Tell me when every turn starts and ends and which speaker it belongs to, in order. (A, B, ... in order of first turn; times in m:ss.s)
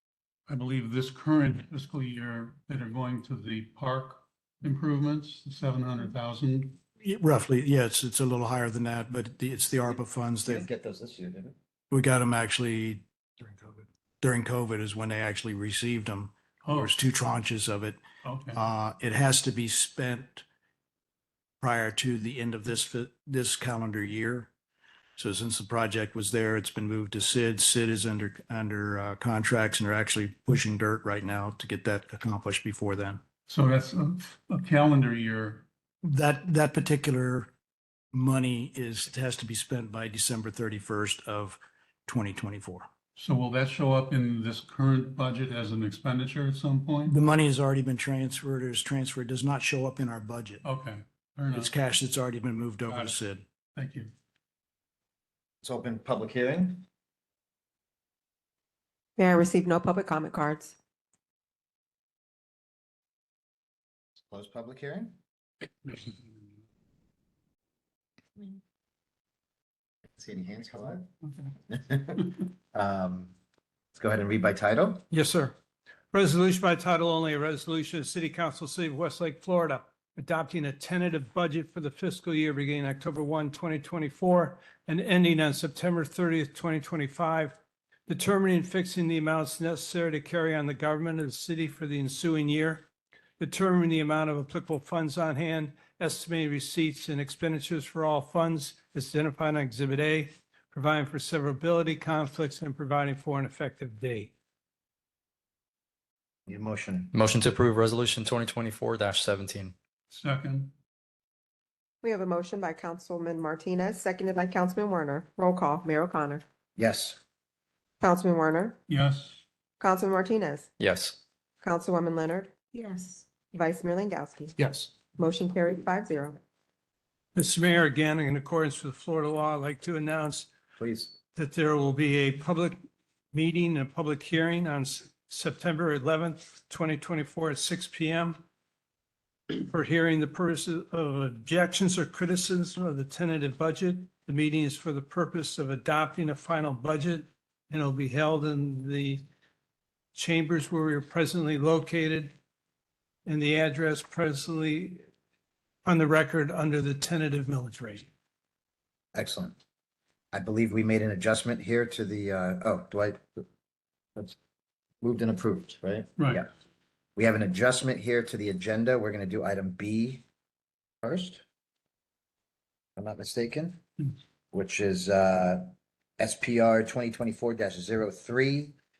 0:00.5-0:06.8 A
0:07.0-0:10.7 B
0:10.4-0:11.5 C
0:11.9-0:18.0 B
0:16.6-0:16.9 A
0:18.2-0:18.6 A
0:18.5-0:20.4 B
0:21.6-0:24.5 B
0:25.2-0:33.2 B
0:33.5-0:35.6 A
0:36.0-0:37.5 B
0:38.1-0:42.9 B
0:43.2-0:47.1 A
0:47.1-0:50.6 B
0:50.6-0:51.7 A
0:51.5-0:53.4 B
0:52.9-0:54.1 A
0:55.6-0:56.8 C
0:59.2-1:00.8 D
1:04.2-1:05.2 C
1:10.1-1:11.1 C
1:11.7-1:13.3 C
1:13.9-1:15.0 C
1:15.1-1:15.5 E
1:16.1-1:27.6 E
1:28.1-1:32.8 E
1:33.4-1:44.3 E
1:46.5-1:47.2 C
1:47.1-1:49.7 F
1:50.1-1:50.7 A
1:52.0-1:56.4 D
1:56.8-1:57.2 C
1:58.0-1:58.8 D
1:58.9-1:59.4 A
1:59.8-2:00.7 D
2:00.8-2:01.2 F
2:01.6-2:02.5 D
2:03.5-2:04.6 D
2:05.2-2:06.4 D
2:07.3-2:10.5 E
2:10.8-2:11.1 C
2:11.3-2:12.8 E
2:13.3-2:18.4 E
2:19.5-2:29.2 E
2:30.1-2:32.3 E
2:33.2-2:35.0 E
2:35.8-2:38.1 E
2:39.1-2:39.6 C
2:40.3-2:43.4 C
2:45.0-2:46.5 C
2:47.2-2:50.2 C
2:51.0-2:51.4 C
2:53.0-2:53.8 C
2:54.5-2:58.8 C